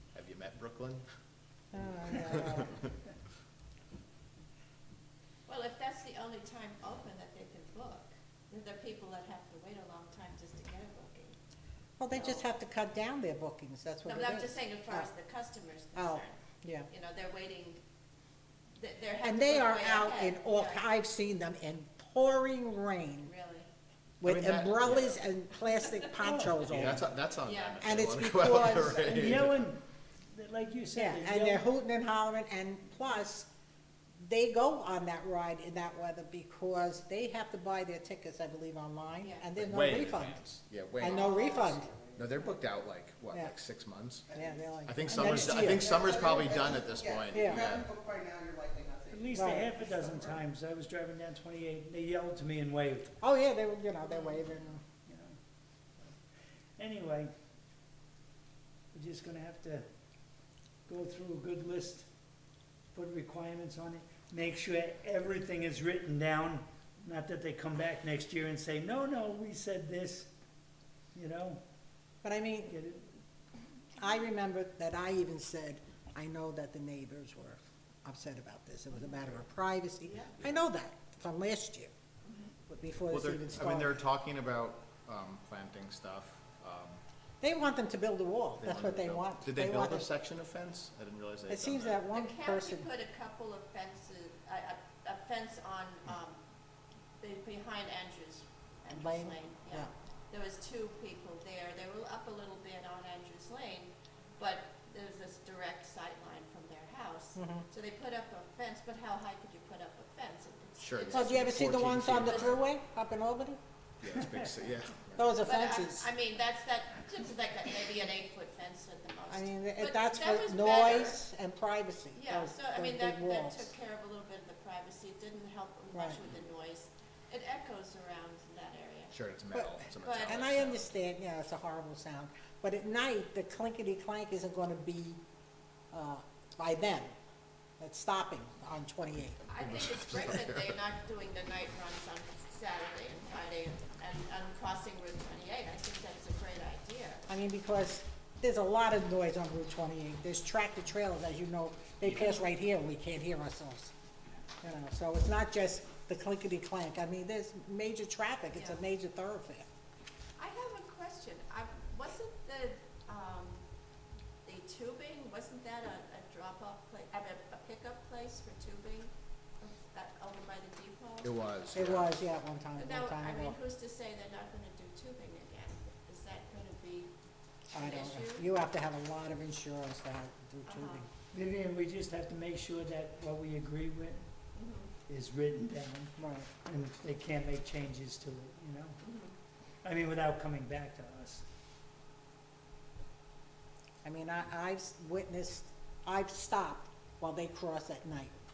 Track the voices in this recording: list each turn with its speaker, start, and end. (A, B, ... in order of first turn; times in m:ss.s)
0:00.1-0:01.0 A
0:01.7-0:02.8 B
0:02.1-0:02.6 A
0:05.5-0:11.4 C
0:12.0-0:15.1 B
0:12.2-0:12.4 C
0:14.0-0:16.4 C
0:15.9-0:16.9 B
0:16.9-0:17.8 C
0:18.8-0:20.8 C
0:19.2-0:23.3 B
0:23.2-0:23.7 C
0:24.2-0:27.1 B
0:24.2-0:25.2 A
0:26.2-0:26.9 D
0:26.7-0:29.6 A
0:27.4-0:28.0 C
0:27.8-0:29.3 B
0:28.9-0:29.8 D
0:30.3-0:31.6 D
0:30.9-0:33.5 B
0:34.2-0:40.4 B
0:39.2-0:39.4 C
0:39.6-0:41.5 A
0:41.0-0:41.9 B
0:41.0-0:41.8 C
0:42.1-0:44.3 A
0:44.3-0:46.2 B
0:44.8-0:47.9 A
0:45.1-0:45.6 D
0:46.0-0:49.2 E
0:47.3-0:47.7 B
0:49.1-0:53.1 D
0:49.3-0:49.7 B
0:50.0-0:50.4 E
0:53.2-0:54.8 B
0:55.0-0:55.4 D
0:56.8-0:57.3 D
0:58.9-0:59.8 D
1:00.9-1:02.1 D
1:02.9-1:10.3 D
1:11.1-1:11.6 D
1:12.2-1:12.7 B
1:12.7-1:13.0 D
1:14.0-1:21.9 B
1:22.2-1:22.5 C
1:22.7-1:24.0 B
1:23.1-1:27.0 A
1:27.4-1:30.0 B
1:28.6-1:32.0 A
1:31.5-1:32.8 B
1:32.1-1:36.4 C
1:37.2-1:52.5 C
1:38.9-1:39.9 B
1:47.4-1:47.6 B
1:50.8-1:52.6 A
1:51.1-1:53.6 B
1:54.0-1:55.3 A
1:55.2-1:56.1 B
1:55.4-2:01.2 C
1:59.3-2:03.7 B
2:02.1-2:09.1 C
2:05.9-2:06.2 B
2:09.1-2:10.9 A
2:09.5-2:15.2 B
2:10.0-2:10.5 C
2:15.9-2:17.1 B
2:17.8-2:19.4 B
2:19.5-2:27.2 C
2:19.6-2:20.7 A
2:27.3-2:33.9 B
2:34.6-2:39.6 B
2:38.5-2:38.8 C
2:40.4-2:43.6 C
2:44.4-2:51.3 C
2:51.2-2:52.2 A
2:51.7-2:53.6 B
2:52.8-2:57.1 C
2:57.7-2:58.5 C
2:57.7-3:01.1 B
3:00.6-3:01.0 C
3:01.3-3:04.3 D
3:04.5-3:04.9 C
3:05.1-3:09.0 D
3:06.2-3:06.5 B
3:09.0-3:09.3 C
3:09.8-3:11.4 D
3:14.0-3:18.3 B